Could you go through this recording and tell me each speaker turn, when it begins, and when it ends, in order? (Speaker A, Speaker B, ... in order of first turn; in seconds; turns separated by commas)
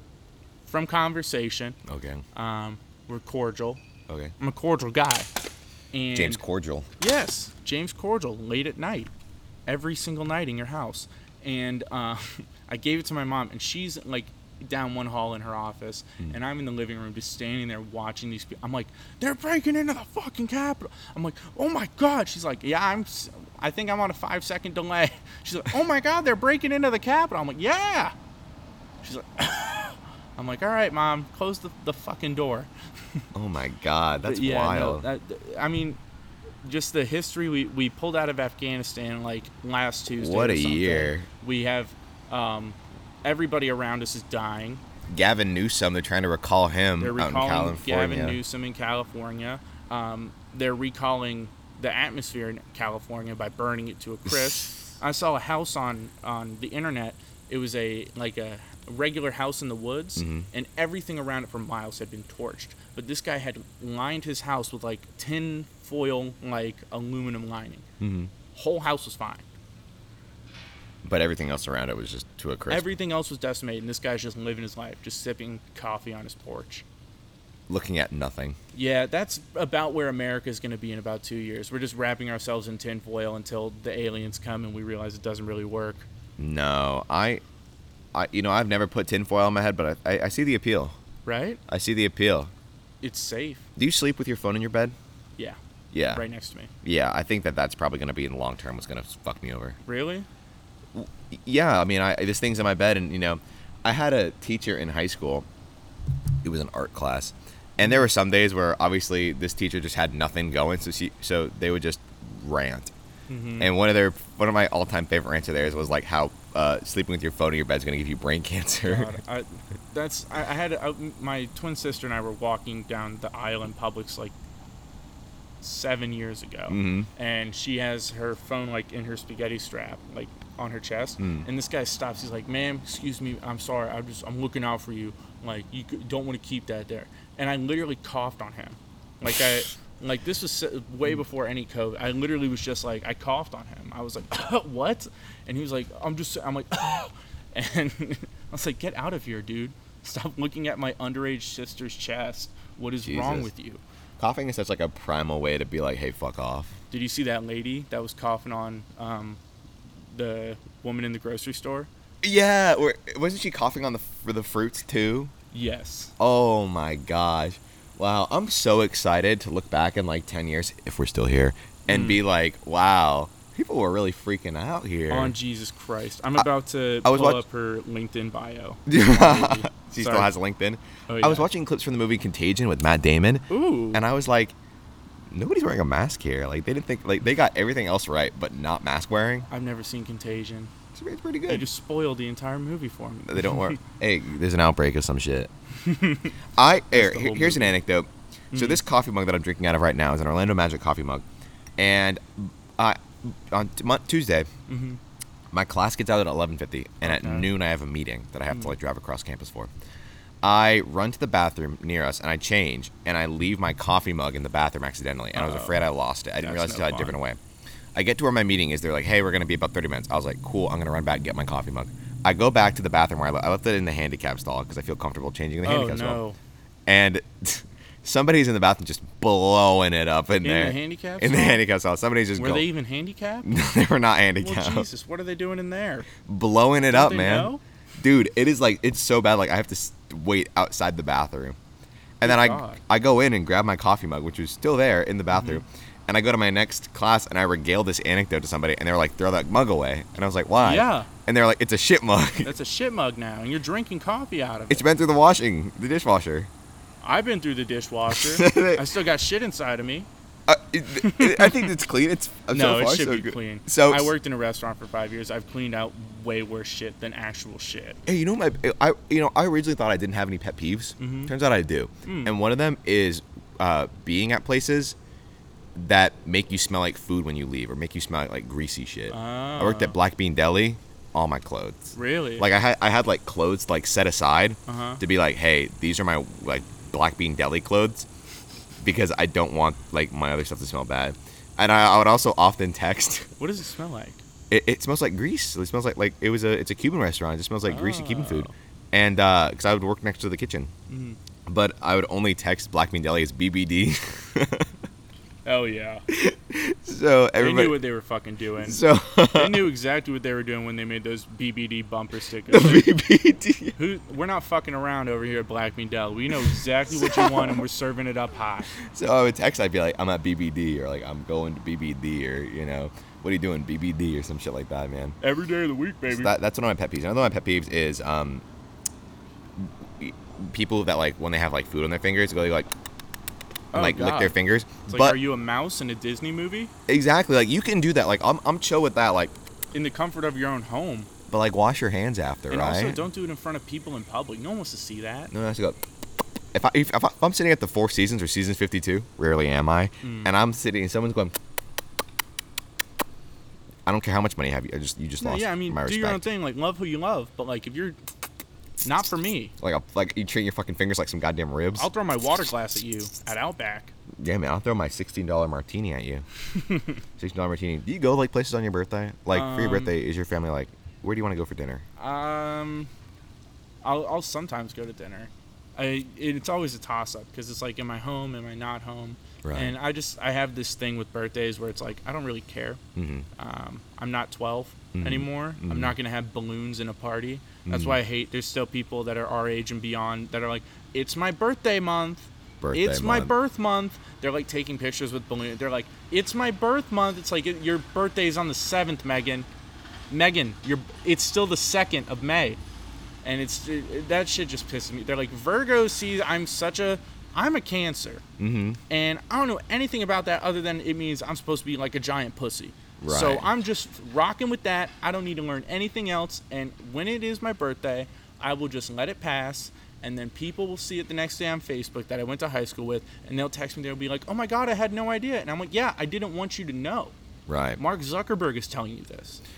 Speaker A: 0.6-1.8, Speaker B: 1.9-2.2, Speaker A: 2.3-3.8, Speaker B: 4.1-4.3, Speaker A: 4.4-5.3, Speaker A: 5.9-6.4, Speaker B: 6.1-6.9, Speaker A: 7.0-9.1, Speaker A: 9.7-28.1, Speaker A: 29.0-33.2, Speaker B: 33.3-35.0, Speaker A: 34.2-36.0, Speaker A: 36.6-44.8, Speaker B: 40.1-41.3, Speaker B: 45.1-48.4, Speaker A: 47.0-67.8, Speaker B: 60.2-60.5, Speaker B: 68.0-68.3, Speaker A: 68.5-69.4, Speaker B: 71.0-72.9, Speaker A: 72.7-76.8, Speaker B: 77.7-78.6, Speaker A: 78.7-86.1, Speaker B: 86.4-87.4, Speaker B: 88.1-91.0, Speaker A: 91.2-91.6, Speaker B: 91.7-92.5, Speaker A: 93.0-93.7, Speaker B: 93.8-94.9, Speaker B: 95.9-96.2, Speaker A: 96.1-96.7, Speaker B: 96.8-99.8, Speaker A: 99.8-100.3, Speaker B: 100.9-105.5, Speaker B: 106.4-112.9, Speaker A: 113.3-113.7, Speaker B: 113.6-119.1, Speaker A: 118.8-124.3, Speaker A: 125.6-153.8, Speaker B: 126.7-127.1, Speaker B: 131.2-131.5, Speaker B: 153.0-153.5, Speaker B: 154.2-156.8, Speaker A: 156.9-159.4, Speaker A: 160.1-161.9, Speaker B: 162.2-165.3, Speaker A: 165.5-166.1, Speaker B: 166.2-175.3, Speaker A: 171.9-172.2, Speaker A: 175.1-180.3, Speaker B: 177.0-177.4, Speaker B: 178.9-184.6, Speaker A: 181.1-181.5, Speaker A: 183.5-184.0, Speaker B: 185.3-189.5, Speaker A: 189.5-190.7, Speaker B: 190.9-191.7, Speaker A: 191.5-193.8, Speaker B: 193.3-195.5, Speaker A: 195.8-196.3, Speaker B: 196.6-201.2, Speaker A: 196.9-197.8, Speaker A: 198.5-198.8, Speaker B: 201.8-204.5, Speaker A: 204.7-205.0, Speaker B: 205.5-209.7, Speaker A: 207.0-207.5, Speaker B: 210.4-217.4, Speaker A: 215.3-215.8, Speaker A: 216.4-217.2, Speaker B: 217.9-226.2, Speaker A: 225.6-226.3, Speaker B: 226.8-232.7, Speaker A: 230.4-231.6, Speaker A: 232.3-233.5, Speaker B: 233.4-234.9, Speaker A: 234.4-236.1, Speaker B: 236.2-241.6, Speaker A: 236.9-237.6, Speaker B: 242.2-252.5, Speaker A: 242.2-242.8, Speaker A: 245.3-245.6, Speaker A: 250.6-251.1, Speaker A: 252.4-254.8, Speaker B: 254.7-256.5, Speaker A: 257.0-260.1, Speaker B: 258.1-258.9, Speaker B: 260.5-264.1, Speaker A: 260.9-261.7, Speaker A: 262.5-268.0, Speaker B: 268.1-274.9, Speaker A: 271.0-271.3, Speaker A: 272.0-272.4, Speaker B: 275.7-288.1, Speaker A: 279.1-280.0, Speaker A: 281.9-282.5, Speaker A: 284.7-285.0, Speaker B: 288.8-293.3, Speaker A: 293.4-294.2, Speaker B: 294.5-300.7, Speaker A: 297.6-298.5, Speaker A: 300.9-301.2, Speaker B: 301.4-304.7, Speaker A: 305.4-306.1, Speaker B: 306.1-307.8, Speaker A: 307.4-308.8, Speaker B: 308.6-309.7, Speaker A: 309.3-312.8, Speaker B: 312.5-313.8, Speaker A: 313.8-318.7, Speaker B: 316.5-317.6, Speaker B: 318.8-325.1, Speaker A: 325.2-326.3, Speaker B: 326.1-328.4, Speaker B: 329.6-332.7, Speaker A: 333.7-334.3, Speaker B: 333.7-335.2, Speaker A: 334.9-336.7, Speaker B: 336.9-339.3, Speaker A: 339.7-341.1, Speaker B: 341.3-343.0, Speaker A: 342.5-345.3, Speaker B: 345.3-345.8, Speaker B: 346.5-351.4, Speaker A: 350.0-350.3, Speaker B: 353.9-356.3, Speaker A: 355.2-358.0, Speaker A: 358.8-359.5, Speaker B: 359.6-361.9, Speaker A: 361.7-363.9, Speaker B: 364.2-366.2, Speaker A: 366.6-367.0, Speaker B: 367.2-371.8, Speaker A: 369.3-369.9, Speaker A: 372.0-372.9, Speaker A: 373.8-382.8, Speaker B: 379.4-379.8, Speaker B: 382.9-383.3, Speaker A: 383.4-399.5, Speaker B: 384.9-385.9, Speaker B: 387.6-388.0, Speaker B: 392.6-393.3, Speaker A: 400.1-402.6, Speaker A: 403.2-408.2, Speaker B: 408.4-408.8, Speaker A: 408.9-427.1, Speaker B: 413.0-413.5, Speaker B: 427.5-427.8, Speaker A: 427.8-429.4